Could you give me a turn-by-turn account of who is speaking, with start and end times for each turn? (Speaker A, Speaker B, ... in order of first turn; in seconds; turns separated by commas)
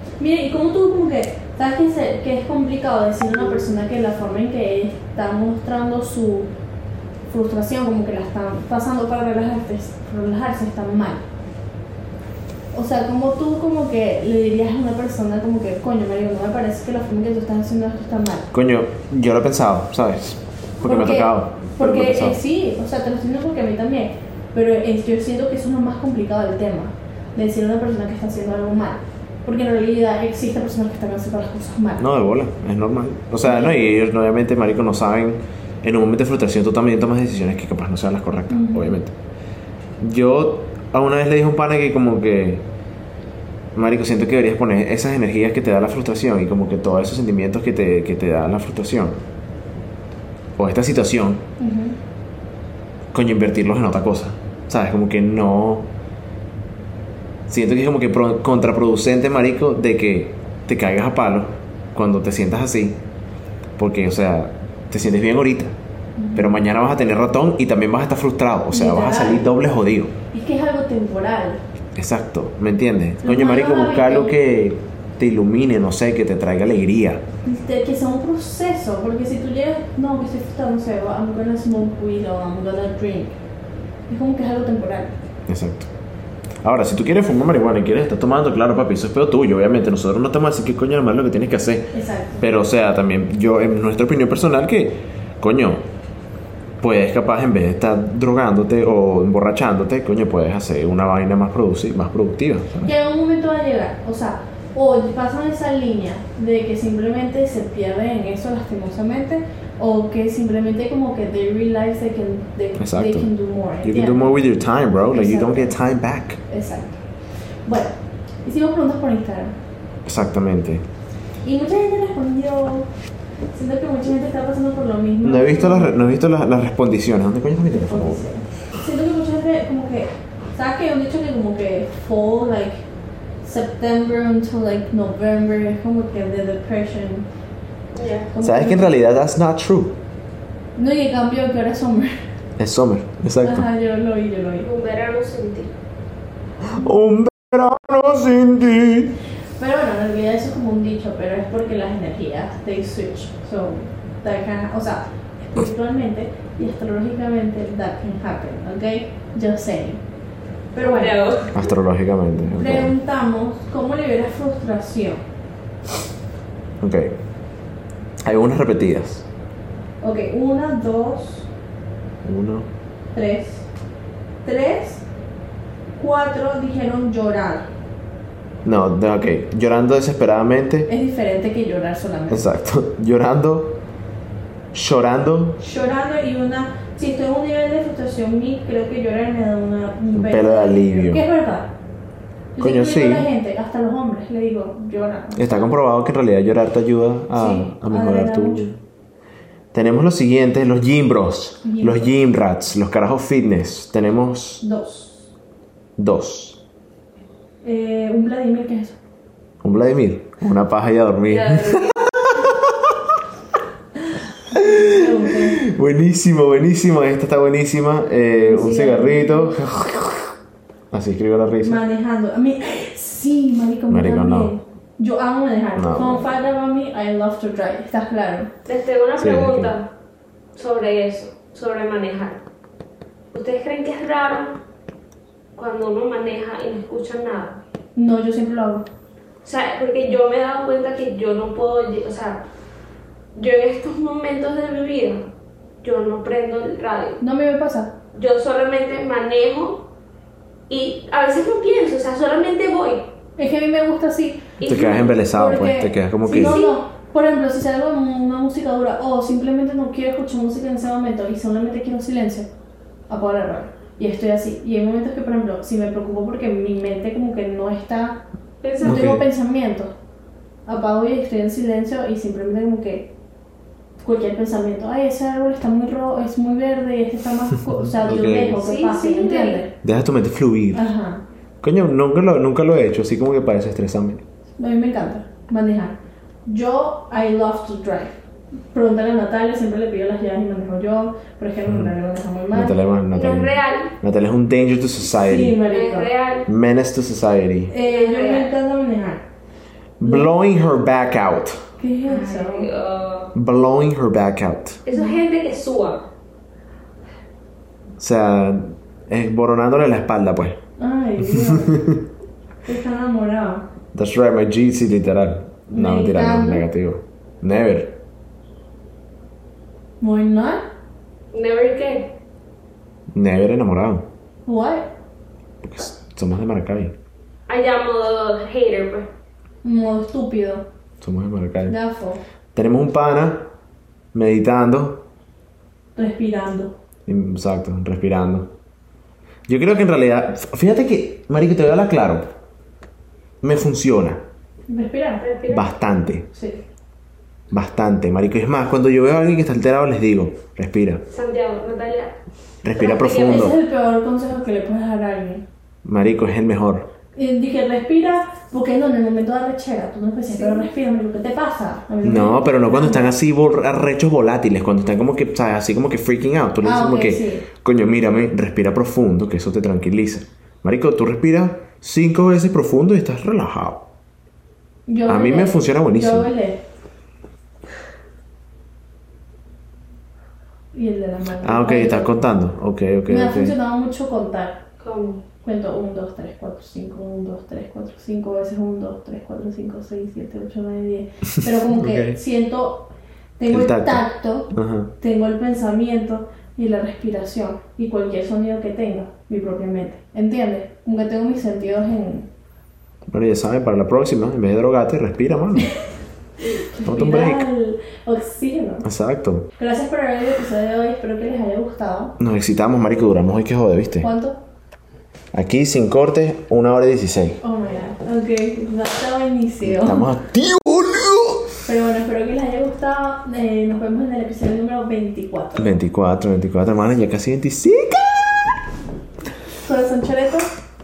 Speaker A: 0.2-6.5, Speaker A: 7.3-11.2, Speaker A: 12.7-18.5, Speaker B: 18.5-22.4, Speaker A: 20.8-32.0, Speaker B: 32.0-39.1, Speaker A: 33.4-33.8, Speaker A: 38.5-39.0, Speaker B: 40.0-42.6, Speaker B: 43.8-49.2, Speaker B: 50.6-51.4, Speaker A: 51.6-52.0, Speaker B: 53.1-55.9, Speaker B: 57.5-63.0, Speaker B: 63.8-65.7, Speaker A: 66.2-66.6, Speaker B: 66.3-70.1, Speaker A: 68.7-69.5, Speaker A: 70.3-71.6, Speaker B: 72.0-77.2, Speaker A: 73.2-74.4, Speaker A: 77.4-83.3, Speaker A: 84.1-85.1, Speaker B: 85.5-85.9, Speaker B: 86.6-95.8, Speaker A: 91.9-92.4, Speaker B: 96.8-102.9, Speaker A: 102.8-114.3, Speaker B: 112.8-116.4, Speaker A: 115.1-115.8, Speaker A: 116.5-117.0, Speaker A: 117.6-119.5, Speaker B: 120.0-120.8, Speaker A: 121.4-122.9, Speaker A: 123.5-126.1, Speaker B: 125.2-128.2, Speaker A: 127.7-132.8, Speaker A: 133.4-137.2, Speaker C: 137.9-138.3, Speaker A: 138.3-138.9, Speaker B: 138.4-140.0, Speaker A: 140.8-142.2, Speaker B: 142.6-143.7, Speaker A: 143.4-144.7, Speaker C: 144.6-145.7, Speaker B: 146.6-149.1, Speaker A: 149.6-160.0, Speaker A: 160.7-161.5, Speaker C: 160.8-161.6, Speaker B: 161.5-162.9, Speaker A: 162.4-165.2, Speaker B: 166.8-167.2, Speaker B: 168.2-169.3, Speaker A: 170.0-171.5, Speaker B: 172.2-172.7, Speaker A: 173.1-173.7, Speaker A: 174.4-175.1, Speaker A: 176.0-177.7, Speaker B: 178.6-180.9, Speaker A: 180.9-182.4, Speaker B: 182.3-183.8, Speaker B: 184.7-185.6, Speaker A: 185.6-191.7, Speaker B: 190.1-191.2, Speaker A: 192.6-195.7, Speaker B: 192.6-193.3, Speaker B: 195.3-198.8, Speaker A: 197.3-198.6, Speaker B: 199.7-204.6, Speaker A: 201.6-202.1, Speaker A: 204.6-205.3, Speaker B: 206.0-206.6, Speaker A: 207.6-209.0, Speaker B: 209.6-212.9, Speaker C: 211.3-212.0, Speaker A: 214.5-215.6, Speaker B: 214.5-220.3, Speaker A: 218.3-219.6, Speaker B: 220.9-221.8, Speaker A: 221.6-228.5, Speaker B: 223.9-224.5, Speaker B: 225.7-226.2, Speaker C: 228.7-229.9, Speaker B: 229.2-229.7, Speaker C: 230.5-232.4, Speaker C: 233.3-234.6, Speaker C: 235.5-237.6, Speaker A: 237.9-238.8, Speaker C: 239.4-242.4, Speaker C: 243.3-245.3, Speaker C: 245.8-247.2, Speaker A: 247.2-248.0, Speaker C: 248.1-249.9, Speaker C: 250.7-253.1, Speaker A: 253.4-262.5, Speaker C: 254.6-255.2, Speaker B: 254.6-256.6, Speaker C: 256.3-256.8, Speaker A: 263.1-268.3, Speaker C: 268.6-269.1, Speaker A: 268.8-269.9, Speaker B: 268.8-269.2, Speaker A: 270.6-273.1, Speaker A: 274.0-279.8, Speaker B: 278.0-278.6, Speaker C: 278.5-279.6, Speaker B: 279.8-280.9, Speaker A: 280.7-281.2, Speaker B: 281.6-284.2, Speaker A: 284.6-288.2, Speaker A: 288.7-292.8, Speaker B: 292.5-295.6, Speaker C: 293.1-293.9, Speaker A: 295.1-296.1, Speaker C: 295.7-296.5, Speaker B: 296.4-297.7, Speaker A: 297.7-299.2, Speaker C: 297.8-298.5, Speaker B: 300.0-301.6, Speaker A: 301.8-302.7, Speaker C: 302.1-303.3, Speaker B: 303.3-304.8, Speaker C: 304.9-306.1, Speaker A: 304.9-305.2, Speaker B: 308.0-310.6, Speaker A: 310.8-311.8, Speaker B: 311.3-312.1, Speaker A: 312.6-313.6, Speaker B: 313.9-318.0, Speaker A: 315.7-316.6, Speaker A: 320.0-320.6, Speaker C: 321.3-322.1, Speaker B: 323.1-324.1, Speaker A: 324.4-324.9, Speaker B: 325.6-326.9, Speaker C: 327.5-329.1, Speaker A: 329.6-330.7, Speaker B: 331.0-331.8, Speaker A: 331.7-332.2, Speaker B: 332.5-333.5, Speaker B: 334.1-335.1, Speaker A: 335.9-336.7, Speaker B: 337.1-338.5, Speaker B: 339.5-342.3, Speaker B: 343.4-344.2, Speaker A: 344.7-345.2, Speaker C: 345.2-345.7, Speaker B: 345.5-346.3, Speaker A: 346.3-346.6, Speaker B: 347.5-351.0, Speaker C: 351.1-352.2, Speaker B: 352.6-353.5, Speaker C: 352.7-353.5, Speaker A: 352.8-355.4, Speaker B: 355.8-356.9, Speaker A: 357.1-363.1, Speaker B: 362.0-373.9, Speaker A: 366.6-367.4, Speaker A: 374.9-376.6, Speaker B: 375.0-376.3, Speaker A: 380.7-382.1, Speaker B: 381.4-383.5, Speaker A: 383.1-384.6, Speaker C: 384.8-385.2, Speaker A: 385.4-402.3, Speaker B: 391.6-392.2, Speaker B: 393.5-394.9, Speaker B: 403.1-405.7, Speaker A: 406.6-408.9, Speaker B: 406.8-407.5, Speaker B: 408.8-409.5, Speaker A: 409.6-412.2, Speaker B: 412.2-414.1, Speaker A: 414.0-414.4, Speaker B: 415.3-417.4, Speaker A: 417.4-420.1, Speaker B: 419.6-421.6, Speaker A: 421.6-425.7, Speaker B: 425.6-428.5, Speaker A: 429.6-430.5